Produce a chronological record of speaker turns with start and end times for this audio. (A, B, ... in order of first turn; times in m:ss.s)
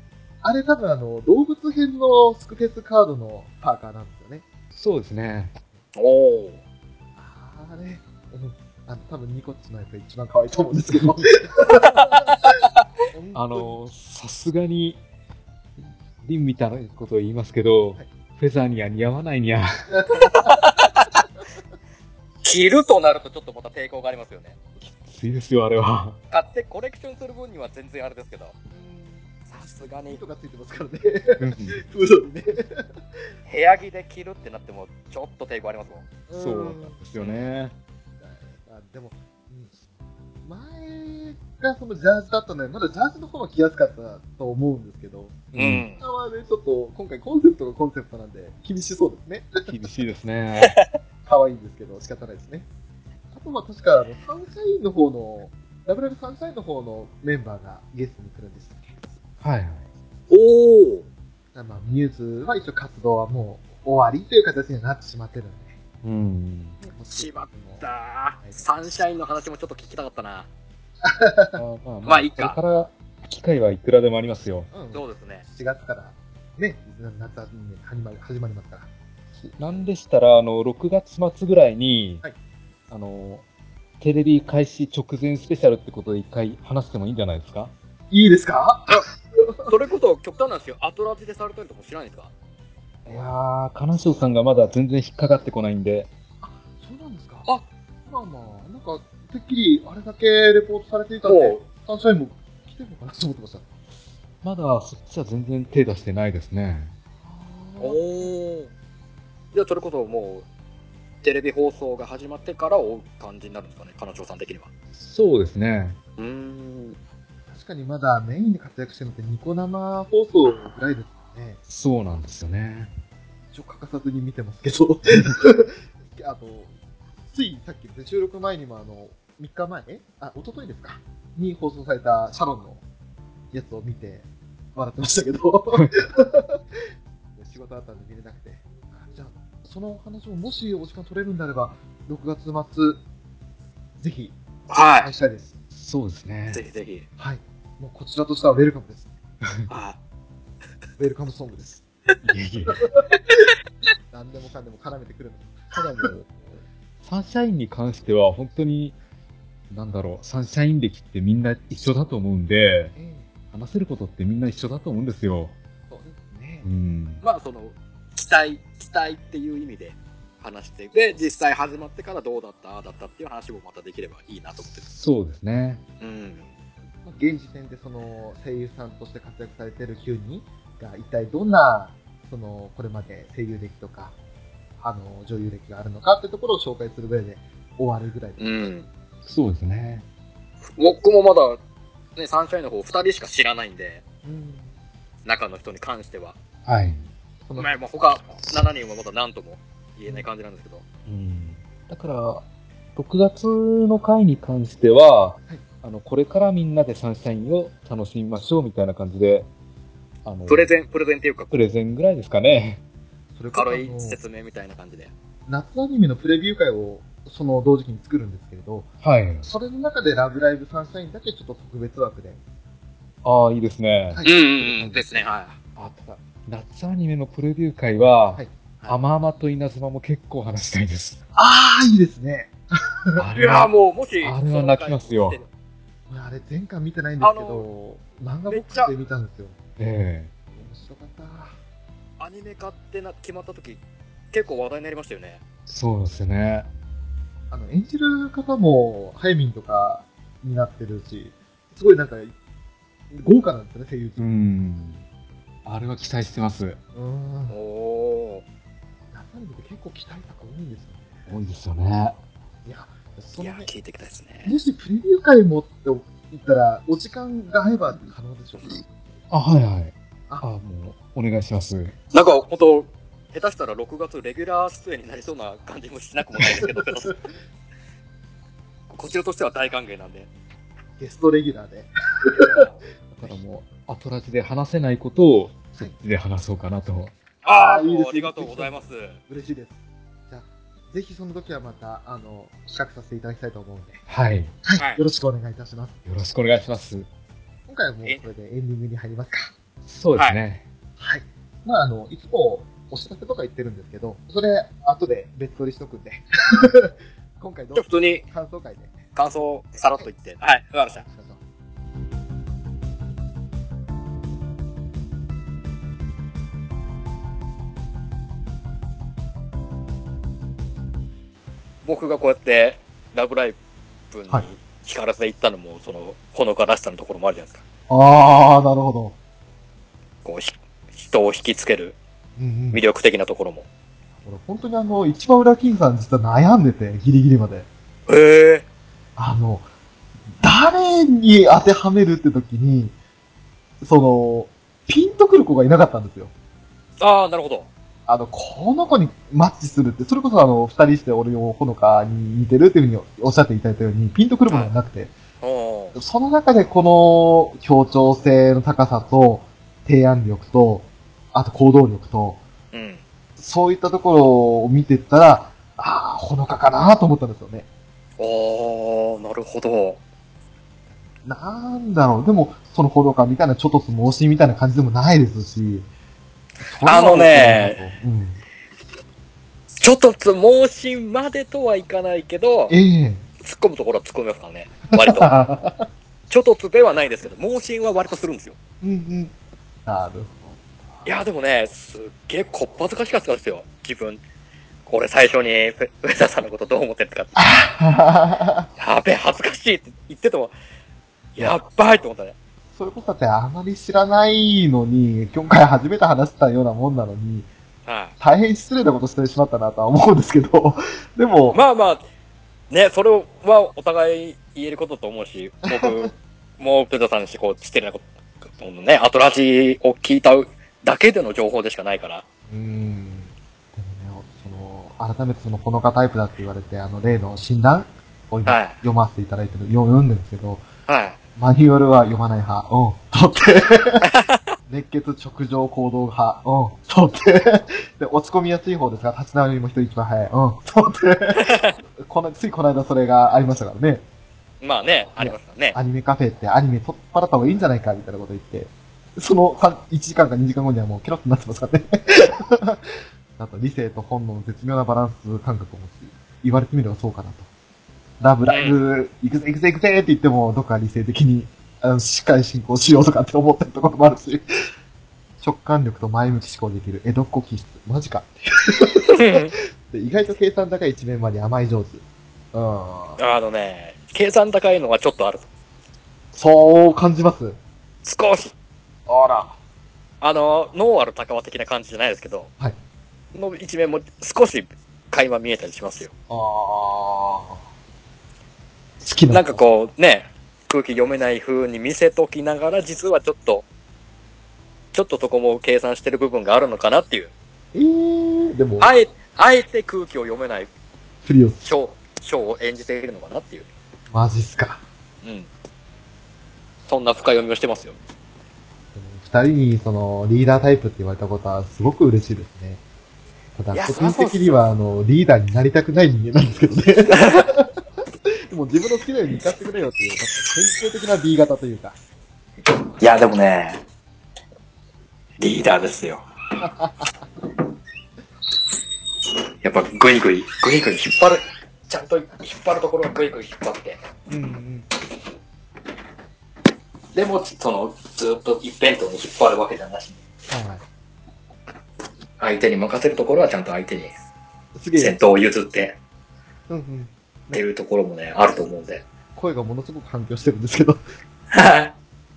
0:00.4-0:04.4 A
0:04.8-0:05.6 B
0:06.0-0:06.6 C
0:07.2-0:12.5 A
0:10.9-0:11.2 B
0:11.9-0:12.8 C
0:13.1-0:13.8 A
0:13.3-0:15.0 B
0:15.8-0:19.7 B
0:19.9-0:20.6 A
0:20.4-0:21.2 C
0:22.4-0:24.6 C
0:24.9-0:26.2 B
0:26.3-0:28.6 C
0:28.7-0:29.3 A
0:29.5-0:30.2 C
0:30.0-0:33.0 A
0:31.4-0:31.8 B
0:33.5-0:36.1 C
0:36.3-0:37.0 A
0:36.3-0:37.8 B
0:38.2-0:39.8 A
0:40.4-0:49.8 A
0:45.5-0:45.9 B
0:45.6-0:46.0 C
0:49.7-0:50.8 B
0:50.6-0:50.9 C
0:51.3-0:52.7 A
0:53.3-0:58.8 A
0:59.4-0:59.8 B
1:00.3-1:01.0 C
1:01.5-1:05.8 A
1:06.0-1:06.8 B
1:06.8-1:08.7 A
1:07.2-1:10.5 C
1:11.0-1:11.6 A
1:11.6-1:14.7 B
1:12.0-1:12.6 C
1:14.7-1:18.9 A
1:14.9-1:15.4 C
1:19.4-1:22.2 B
1:22.9-1:23.4 B
1:24.0-1:27.7 B
1:28.1-1:29.0 A
1:29.7-1:32.3 C
1:33.1-1:36.1 B
1:36.4-1:37.5 A
1:38.1-1:43.7 A
1:41.2-1:41.6 C
1:44.4-1:46.9 B
1:47.2-1:48.3 A
1:47.8-1:48.7 C
1:49.5-1:50.5 C
1:51.2-1:54.7 C
1:54.9-1:56.0 B
1:56.2-1:57.0 C
1:57.5-2:01.6 A
2:01.7-2:02.9 B
2:03.5-2:06.7 A
2:07.3-2:12.8 A
2:13.5-2:16.8 A
2:17.4-2:23.0 A
2:24.0-2:24.4 A
2:24.7-2:25.1 C
2:25.0-2:25.5 A
2:25.7-2:26.6 B
2:26.5-2:27.0 C
2:27.2-2:29.1 A
2:29.7-2:30.0 C
2:31.0-2:31.8 A
2:32.2-2:32.8 B
2:32.7-2:33.0 A
2:34.1-2:36.3 A
2:37.0-2:39.0 B
2:39.7-2:42.9 B
2:43.0-2:43.3 A
2:43.5-2:45.5 B
2:45.9-2:46.7 A
2:46.6-2:47.2 B
2:47.2-2:54.8 C
2:54.6-2:55.8 B
2:56.0-2:56.5 C
2:57.0-3:04.2 A
3:04.8-3:08.7 A
3:08.4-3:08.8 C
3:09.3-3:10.0 B
3:10.6-3:11.6 C
3:12.2-3:14.0 C
3:14.2-3:14.8 A
3:15.2-3:16.4 C
3:16.7-3:17.1 B
3:17.5-3:17.8 A
3:17.6-3:20.8 C
3:21.1-3:29.5 B
3:30.2-3:30.7 B
3:30.5-3:31.5 C
3:31.5-3:32.8 B
3:33.4-3:34.2 A
3:33.5-3:35.1 C
3:35.5-3:38.9 A
3:39.0-3:39.5 B
3:39.4-3:42.4 A
3:43.2-3:44.2 B
3:44.1-3:45.2 A
3:44.2-3:45.6 C
3:45.8-3:51.2 B
3:51.4-3:52.5 A
3:53.2-3:55.4 B
3:53.4-3:55.5 C
3:56.1-3:59.6 A
3:57.2-3:57.7 C
3:58.5-3:58.9 C
3:59.8-4:00.3 B
4:00.6-4:01.6 A
4:02.2-4:03.8 C
4:04.3-4:05.4 C
4:05.7-4:06.7 B
4:07.5-4:12.3 A
4:13.1-4:14.2 A
4:14.2-4:15.0 B
4:15.6-4:16.8 B
4:16.9-4:17.6 A
4:17.5-4:18.4 C
4:19.1-4:21.2 A
4:21.3-4:22.2 B
4:22.6-4:23.7 A
4:23.4-4:24.6 C
4:24.4-4:28.8 A
4:29.3-4:32.0 B
4:32.1-4:37.2 C
4:36.6-4:37.2 A
4:38.9-4:40.3 C
4:41.0-4:43.4 A
4:42.4-4:42.8 C
4:43.2-4:47.1 B
4:47.4-4:49.2 C
4:47.5-4:49.8 A
4:50.3-4:54.0 A
4:54.1-4:54.5 B
4:54.6-4:56.0 A
4:56.1-4:57.1 B
4:57.7-4:59.5 A
4:59.9-5:00.6 B
5:01.0-5:09.1 A
5:07.8-5:08.2 C
5:09.2-5:11.0 C
5:10.9-5:11.4 A
5:21.8-5:23.6 C
5:24.1-5:27.6 C
5:27.9-5:29.2 A
5:30.2-5:32.0 C
5:32.4-5:32.8 A
5:32.7-5:33.6 C
5:34.2-5:37.7 A
5:38.1-5:38.6 C
5:39.2-5:39.7 A
5:40.4-5:43.0 A
5:43.8-5:46.3 A
5:47.0-5:47.7 C
5:48.1-5:55.1 A
5:55.4-5:56.0 C
5:55.9-6:02.4 A
6:02.7-6:03.0 C
6:03.4-6:07.7 A
6:08.2-6:10.0 C
6:11.2-6:15.9 A
6:16.6-6:18.4 A
6:16.8-6:17.8 C
6:19.8-6:22.7 C
6:22.7-6:23.2 A
6:23.4-6:25.3 C
6:24.9-6:25.9 A
6:26.3-6:28.6 C
6:28.8-6:29.3 A
6:29.9-6:30.5 A
6:31.0-6:34.2 C
6:34.9-6:37.4 C
6:37.4-6:38.7 A
6:38.8-6:40.5 C
6:41.4-6:42.4 C
6:42.7-6:47.5 A
6:47.9-6:48.1 C
6:48.2-6:51.6 A
6:51.5-6:52.0 C
6:52.7-7:02.2 C
6:55.7-6:56.1 A
7:02.5-7:10.6 A
7:08.5-7:08.8 C
7:10.9-7:11.2 C
7:11.4-7:14.1 A
7:14.0-7:14.4 C
7:14.7-7:24.0 A
7:21.4-7:21.8 C
7:24.6-7:25.8 C
7:25.2-7:37.5 A
7:38.2-7:44.4 A
7:38.4-7:38.8 C
7:45.4-7:53.2 A
7:49.1-7:49.5 C
7:53.2-7:55.5 C
7:56.3-7:57.6 A
7:58.0-7:58.5 C
7:59.1-7:59.6 A
8:00.2-8:02.5 C
8:03.3-8:06.1 C
8:06.3-8:07.6 A
8:09.0-8:09.6 A
8:09.3-8:13.6 C
8:14.9-8:17.3 C
8:17.7-8:18.9 A
8:18.8-8:20.7 C
8:21.2-8:21.6 A
8:21.6-8:23.7 C
8:24.1-8:24.8 A
8:25.2-8:25.5 C
8:26.9-8:28.0 C
8:28.9-8:32.8 A
8:33.6-8:37.7 A
8:33.7-8:34.6 C
8:37.1-8:37.5 C
8:38.5-8:42.0 A
8:43.0-8:43.8 C
8:45.4-8:46.2 C
8:46.6-8:47.2 A
8:49.6-8:54.0 C
8:54.3-8:54.9 A
8:57.1-9:00.2 C
9:00.5-9:00.8 A
9:02.4-9:04.1 C
9:04.8-9:05.2 A
9:05.0-9:06.0 C
9:06.7-9:07.6 A
9:07.5-9:09.0 C
9:09.4-9:11.0 A
9:11.5-9:11.9 C